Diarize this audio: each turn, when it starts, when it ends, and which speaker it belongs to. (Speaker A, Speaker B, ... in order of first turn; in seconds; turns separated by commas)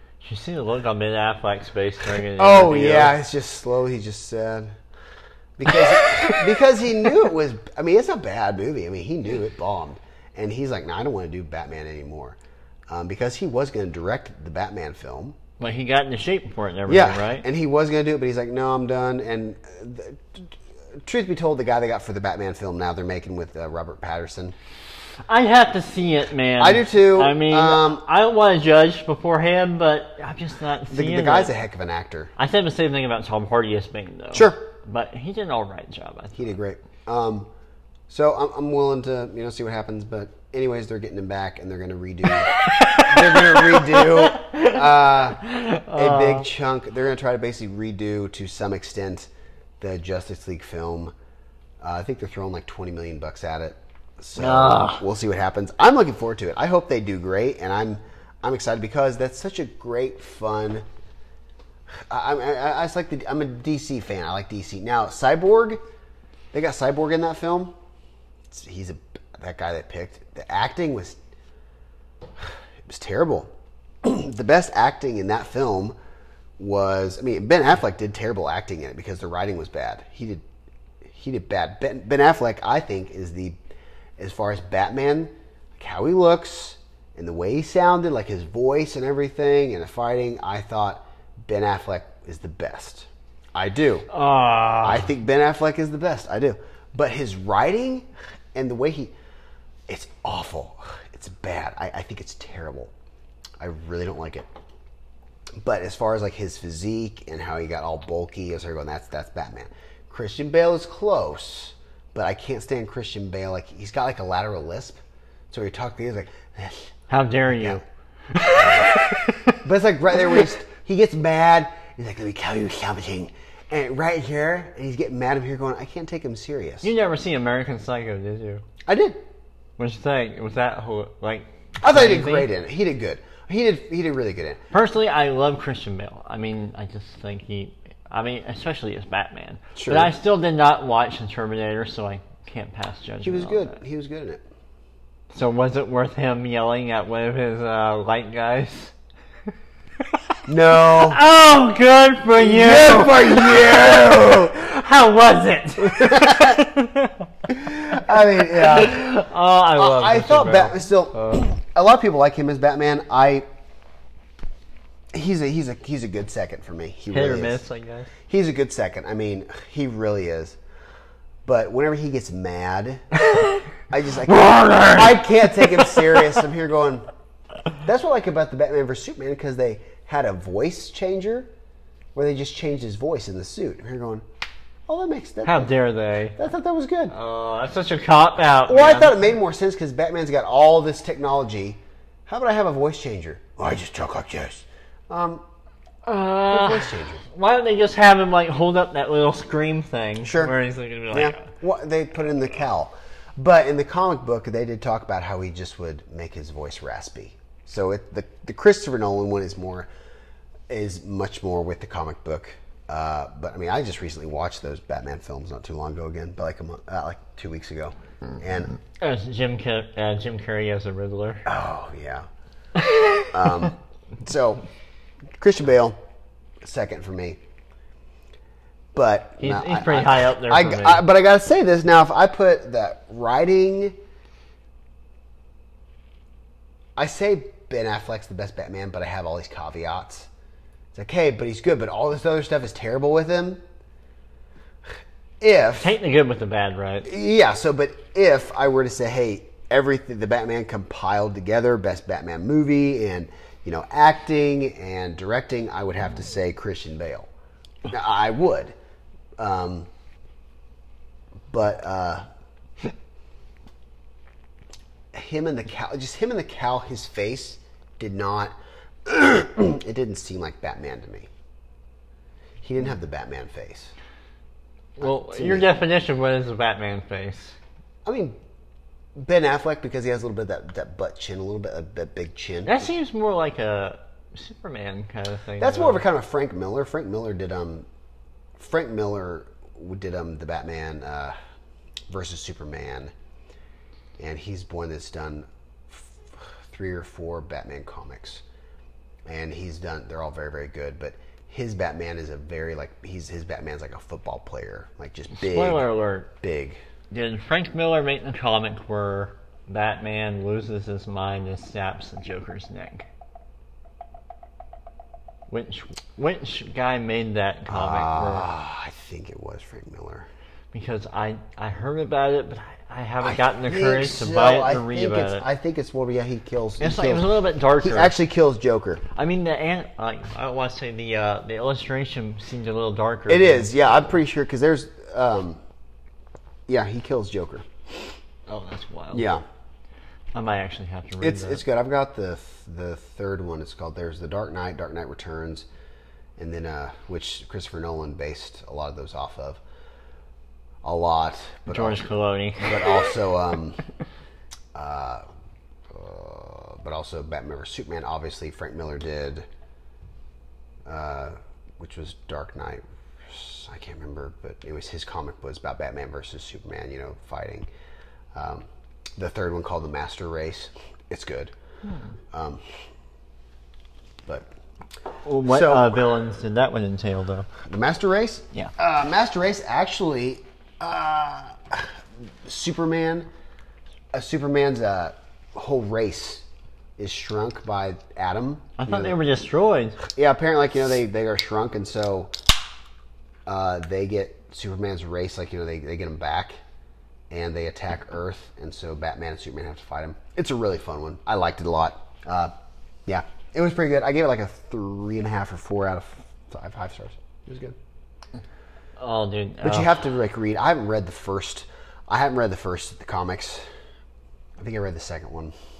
Speaker A: 0.2-3.2, Speaker B: 2.3-4.8, Speaker B: 5.6-12.4, Speaker A: 5.7-6.4, Speaker B: 12.9-15.3, Speaker A: 15.6-17.4, Speaker B: 16.9-24.5, Speaker A: 25.3-31.5, Speaker B: 26.6-28.0, Speaker B: 30.9-32.3, Speaker A: 32.4-36.5, Speaker B: 34.3-34.6, Speaker B: 36.4-37.5, Speaker B: 38.1-45.4, Speaker A: 42.3-46.5, Speaker B: 45.9-51.1, Speaker B: 51.8-60.8, Speaker A: 54.4-55.0, Speaker B: 62.1-65.8, Speaker B: 66.5-67.7, Speaker B: 68.5-71.2, Speaker B: 72.4-73.5, Speaker B: 74.0-75.9, Speaker B: 76.6-80.4, Speaker B: 81.1-83.5, Speaker B: 84.2-94.1, Speaker A: 94.1-95.1, Speaker B: 94.8-99.1, Speaker B: 99.9-102.9, Speaker B: 103.6-104.5, Speaker B: 105.6-116.9, Speaker A: 117.1-119.6, Speaker B: 117.5-117.8, Speaker B: 118.5-126.9, Speaker A: 126.8-128.6, Speaker B: 128.8-129.2, Speaker A: 129.8-132.5, Speaker B: 131.8-134.6, Speaker A: 134.7-143.8, Speaker B: 139.8-140.1, Speaker B: 143.2-144.4, Speaker A: 145.3-148.9, Speaker B: 150.5-151.2, Speaker A: 150.8-157.3, Speaker B: 152.3-154.5, Speaker B: 155.8-156.7, Speaker B: 157.5-159.2, Speaker A: 157.9-161.5, Speaker B: 159.8-163.4, Speaker B: 165.1-167.6, Speaker A: 167.1-168.1, Speaker B: 168.3-170.6, Speaker B: 171.4-173.1, Speaker A: 173.2-173.6, Speaker B: 173.9-177.0, Speaker A: 174.2-176.3, Speaker B: 177.8-181.5, Speaker B: 182.1-184.2, Speaker B: 184.9-185.7, Speaker A: 185.4-186.4, Speaker B: 186.3-187.1, Speaker A: 187.1-189.2, Speaker B: 188.7-195.4, Speaker A: 196.1-201.5, Speaker B: 196.5-197.2, Speaker B: 200.2-200.5, Speaker B: 201.1-209.9, Speaker B: 210.7-218.8, Speaker A: 219.0-221.4, Speaker B: 221.4-222.3, Speaker A: 222.8-223.5, Speaker B: 223.2-224.6, Speaker B: 225.4-226.0, Speaker B: 226.6-227.4, Speaker B: 228.9-233.9, Speaker A: 229.4-231.0, Speaker B: 236.9-240.3, Speaker B: 240.9-243.6, Speaker B: 245.4-245.9, Speaker A: 245.8-247.1, Speaker B: 247.1-257.3, Speaker B: 257.9-258.7, Speaker B: 259.4-259.9, Speaker B: 261.5-262.2, Speaker B: 265.1-268.5, Speaker B: 269.0-271.3, Speaker B: 272.6-273.9, Speaker A: 275.0-277.6, Speaker B: 275.0-275.7, Speaker B: 278.0-278.4, Speaker B: 279.2-282.9, Speaker A: 282.6-286.1, Speaker B: 285.6-287.9, Speaker B: 288.6-291.3, Speaker B: 292.1-293.1, Speaker B: 294.2-298.4, Speaker B: 299.2-306.8, Speaker A: 305.3-306.3, Speaker A: 307.1-313.1, Speaker A: 315.5-318.5, Speaker B: 317.7-320.3, Speaker A: 320.7-325.4, Speaker B: 323.2-329.0, Speaker A: 326.8-328.1, Speaker A: 329.1-334.1, Speaker B: 333.3-335.6, Speaker B: 336.7-337.6, Speaker A: 338.5-339.3, Speaker B: 339.1-339.4, Speaker A: 340.3-341.6, Speaker B: 341.2-345.7, Speaker B: 346.4-349.6, Speaker B: 350.8-352.0, Speaker A: 351.7-353.1, Speaker B: 352.6-353.8, Speaker B: 354.7-355.2, Speaker B: 355.9-359.4, Speaker B: 360.9-367.7, Speaker B: 368.3-368.6, Speaker B: 369.2-371.5, Speaker A: 371.9-372.1, Speaker B: 372.3-372.6, Speaker A: 375.2-377.5, Speaker B: 375.5-376.0, Speaker B: 377.6-383.3, Speaker B: 384.1-386.4, Speaker B: 387.0-389.2, Speaker A: 388.8-390.0, Speaker B: 390.0-392.3, Speaker B: 393.4-396.5, Speaker B: 397.3-402.5, Speaker B: 403.1-407.8, Speaker A: 409.0-410.0, Speaker B: 409.6-413.6, Speaker B: 414.6-415.5